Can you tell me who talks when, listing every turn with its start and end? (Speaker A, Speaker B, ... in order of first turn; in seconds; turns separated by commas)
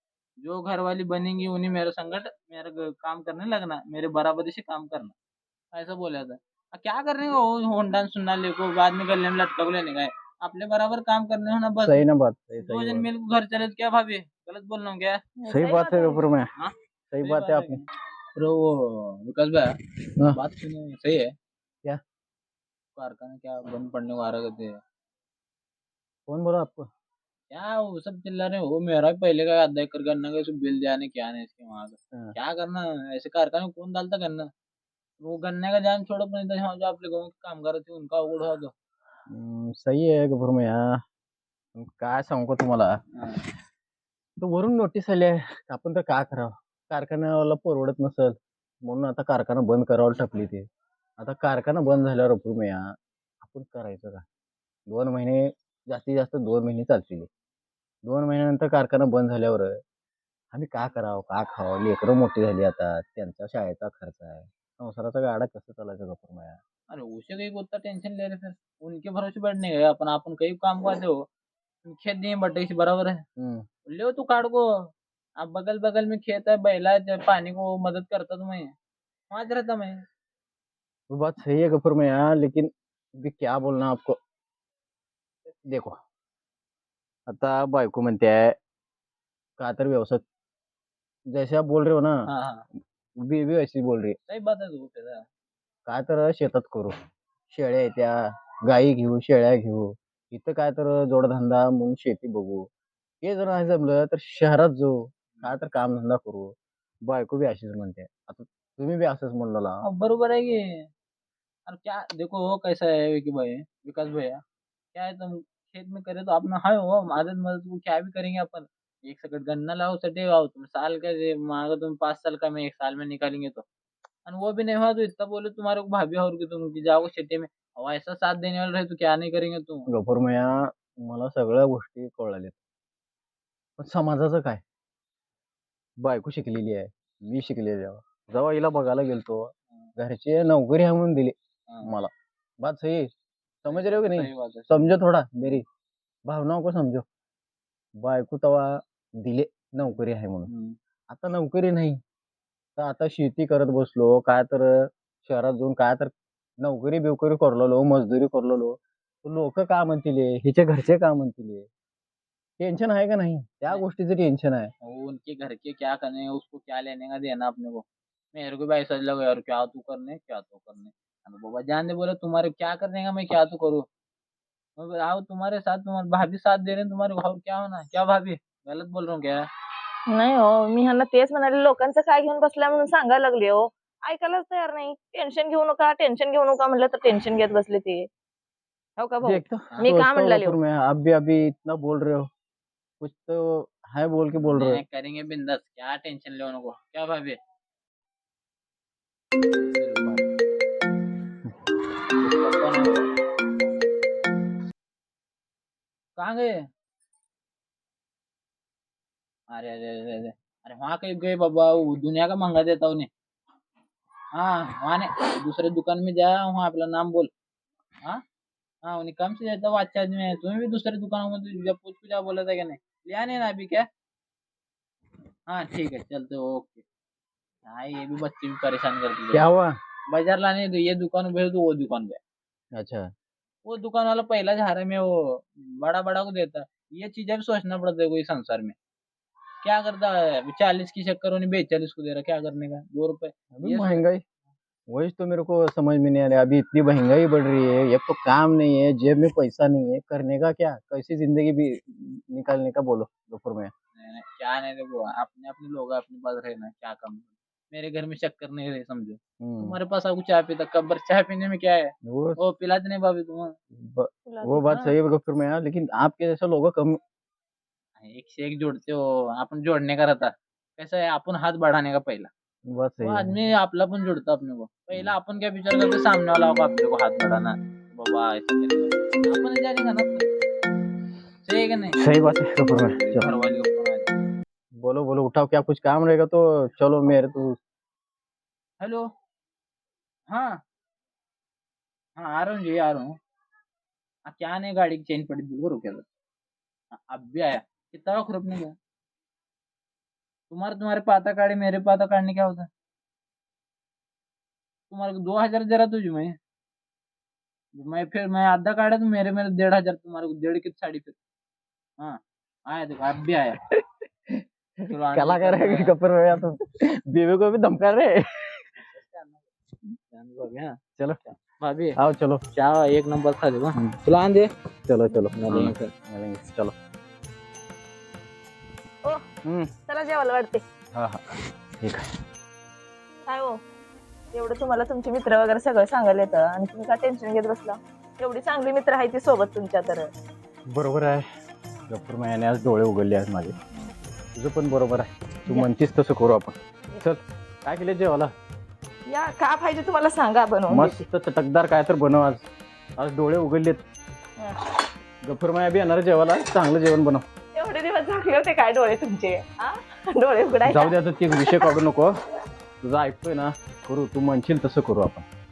Speaker A: 0.4-5.1, Speaker A: 5.7-12.0, Speaker B: 11.8-13.1, Speaker A: 12.6-15.2, Speaker C: 15.4-16.3, Speaker B: 15.5-16.5, Speaker A: 16.6-17.9, Speaker B: 17.1-17.8, Speaker A: 18.4-21.4, Speaker A: 23.0-24.8, Speaker B: 26.3-26.9, Speaker A: 27.5-34.5, Speaker A: 35.2-38.7, Speaker B: 39.3-41.0, Speaker B: 41.8-43.0, Speaker A: 43.1-43.4, Speaker B: 44.4-50.7, Speaker B: 51.2-54.2, Speaker B: 54.9-57.3, Speaker B: 58.0-59.8, Speaker B: 60.5-66.6, Speaker A: 66.9-71.3, Speaker A: 71.8-73.2, Speaker B: 73.4-73.7, Speaker A: 73.9-74.7, Speaker A: 75.4-78.8, Speaker A: 79.3-80.0, Speaker B: 81.1-84.2, Speaker B: 85.7-86.0, Speaker B: 87.3-88.6, Speaker B: 89.6-90.2, Speaker B: 91.3-92.3, Speaker A: 92.3-92.7, Speaker B: 93.2-94.2, Speaker A: 94.3-95.2, Speaker B: 95.9-97.0, Speaker B: 97.5-102.7, Speaker B: 103.2-109.8, Speaker A: 109.8-110.9, Speaker A: 111.7-114.4, Speaker A: 114.9-123.7, Speaker A: 124.3-129.9, Speaker B: 129.9-132.6, Speaker B: 133.8-134.6, Speaker B: 136.0-142.1, Speaker B: 142.6-143.1, Speaker B: 143.6-145.7, Speaker A: 143.7-144.9, Speaker B: 146.3-147.1, Speaker B: 148.0-150.5, Speaker A: 150.5-150.8, Speaker B: 151.1-152.0, Speaker B: 152.8-161.7, Speaker B: 162.6-164.7, Speaker A: 164.8-173.8, Speaker A: 174.8-179.5, Speaker C: 180.1-188.1, Speaker C: 189.0-190.6, Speaker B: 189.2-192.3, Speaker B: 193.0-194.8, Speaker A: 194.5-197.4, Speaker A: 199.5-200.2, Speaker A: 202.2-203.1, Speaker A: 206.2-206.6, Speaker A: 209.5-213.1, Speaker A: 214.3-217.3, Speaker A: 218.8-223.9, Speaker A: 225.5-226.8, Speaker A: 227.7-229.5, Speaker B: 229.3-229.8, Speaker A: 230.1-232.2, Speaker B: 232.8-233.1, Speaker A: 233.7-238.8, Speaker A: 239.6-244.0, Speaker B: 243.5-244.2, Speaker B: 244.9-253.7, Speaker A: 253.9-263.6, Speaker B: 259.4-259.8, Speaker B: 262.1-262.4, Speaker B: 263.8-267.0, Speaker C: 264.3-264.6, Speaker A: 264.6-264.9, Speaker A: 268.0-272.3, Speaker B: 272.7-273.4, Speaker A: 273.0-280.2, Speaker A: 281.4-282.0, Speaker B: 282.0-283.3, Speaker A: 282.9-284.1, Speaker B: 284.8-287.6, Speaker A: 288.8-289.1, Speaker A: 290.3-290.6, Speaker A: 292.2-293.1, Speaker A: 294.3-296.1, Speaker A: 296.9-298.8, Speaker A: 300.5-302.7, Speaker A: 304.9-306.4, Speaker A: 307.7-311.2, Speaker A: 312.0-313.6, Speaker B: 313.7-318.7, Speaker A: 314.9-315.9, Speaker A: 318.9-322.0, Speaker B: 322.0-322.4, Speaker A: 322.5-324.5, Speaker B: 324.9-326.7, Speaker A: 325.3-325.9, Speaker B: 329.4-329.7, Speaker C: 329.9-330.6, Speaker B: 330.9-332.1, Speaker C: 333.3-333.6, Speaker C: 334.3-340.1, Speaker B: 340.7-341.2, Speaker B: 341.9-343.6, Speaker B: 344.4-348.3, Speaker C: 349.1-351.0, Speaker B: 350.7-352.4, Speaker B: 353.0-353.8, Speaker B: 355.2-357.2, Speaker C: 357.6-360.9, Speaker B: 360.6-362.1, Speaker B: 362.8-365.3